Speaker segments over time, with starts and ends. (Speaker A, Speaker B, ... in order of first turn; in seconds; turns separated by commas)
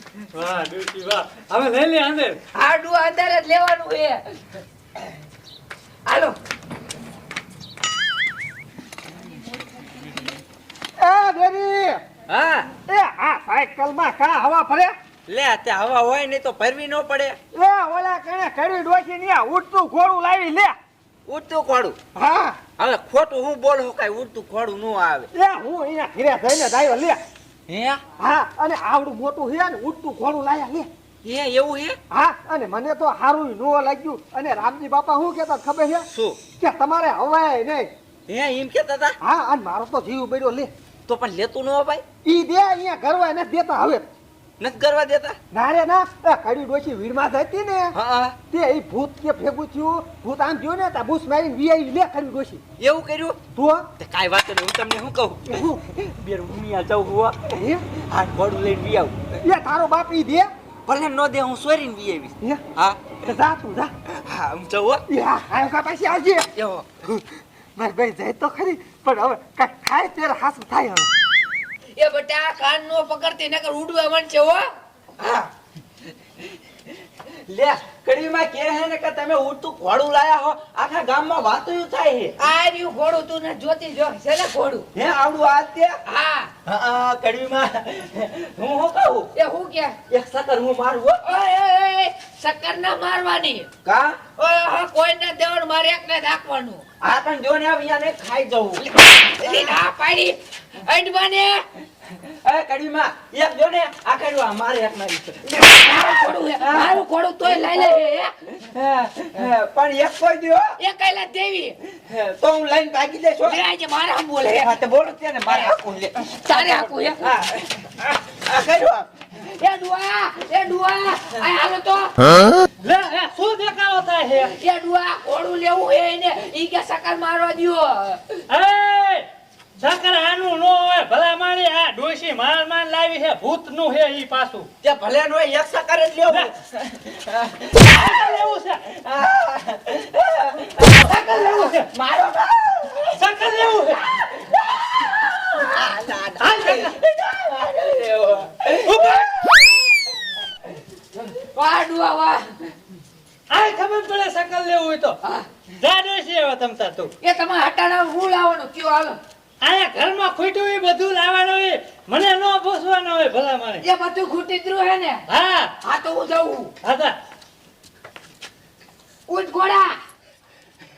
Speaker A: 0.3-2.4, Speaker B: 2.5-4.4, Speaker B: 6.1-6.3, Speaker C: 11.0-12.0, Speaker D: 12.3-12.7, Speaker C: 12.9-14.9, Speaker D: 15.3-17.4, Speaker C: 17.5-20.8, Speaker D: 21.3-22.0, Speaker C: 22.1-22.6, Speaker D: 22.8-25.3, Speaker C: 25.4-27.2, Speaker D: 27.7-28.0, Speaker C: 28.2-30.9, Speaker D: 31.2-32.0, Speaker C: 32.1-36.1, Speaker D: 36.1-36.4, Speaker C: 36.6-37.9, Speaker D: 38.3-39.2, Speaker C: 39.2-40.7, Speaker D: 41.1-42.0, Speaker C: 42.2-44.1, Speaker D: 44.6-45.4, Speaker C: 45.5-47.9, Speaker D: 47.9-48.4, Speaker C: 48.5-52.6, Speaker D: 52.8-53.4, Speaker C: 53.5-53.9, Speaker D: 54.0-59.2, Speaker C: 55.5-55.8, Speaker C: 57.5-57.8, Speaker C: 59.4-60.5, Speaker D: 60.9-63.2, Speaker C: 63.2-63.9, Speaker D: 64.2-65.0, Speaker C: 65.1-66.5, Speaker D: 66.5-66.9, Speaker C: 67.8-71.1, Speaker B: 72.0-74.7, Speaker D: 75.2-75.5, Speaker D: 77.5-82.3, Speaker B: 82.4-84.9, Speaker D: 85.0-86.0, Speaker B: 86.0-86.5, Speaker D: 86.7-89.3, Speaker B: 89.3-90.0, Speaker D: 90.1-91.3, Speaker B: 91.2-93.7, Speaker D: 93.8-94.2, Speaker B: 94.4-96.8, Speaker D: 97.0-98.8, Speaker B: 98.8-101.7, Speaker D: 99.4-99.7, Speaker D: 102.2-107.0, Speaker B: 105.6-108.3, Speaker D: 107.5-107.8, Speaker D: 108.6-110.8, Speaker B: 110.8-111.8, Speaker D: 112.1-113.6, Speaker B: 113.4-114.7, Speaker D: 114.6-119.1, Speaker B: 115.5-115.7, Speaker B: 116.2-117.3, Speaker B: 119.4-122.3, Speaker A: 122.8-124.5, Speaker B: 124.4-128.4, Speaker A: 128.5-129.3, Speaker A: 129.8-134.7, Speaker D: 134.8-143.3, Speaker A: 137.8-138.9, Speaker A: 141.0-141.9, Speaker A: 143.2-144.2, Speaker D: 145.6-149.3, Speaker A: 146.4-147.0, Speaker A: 148.9-149.3, Speaker B: 151.4-152.5, Speaker A: 153.5-155.2, Speaker A: 155.8-157.1, Speaker B: 157.2-159.2, Speaker A: 159.6-163.8, Speaker B: 163.8-165.2, Speaker A: 165.3-165.7, Speaker B: 165.8-166.7, Speaker A: 166.8-167.2, Speaker B: 169.3-170.0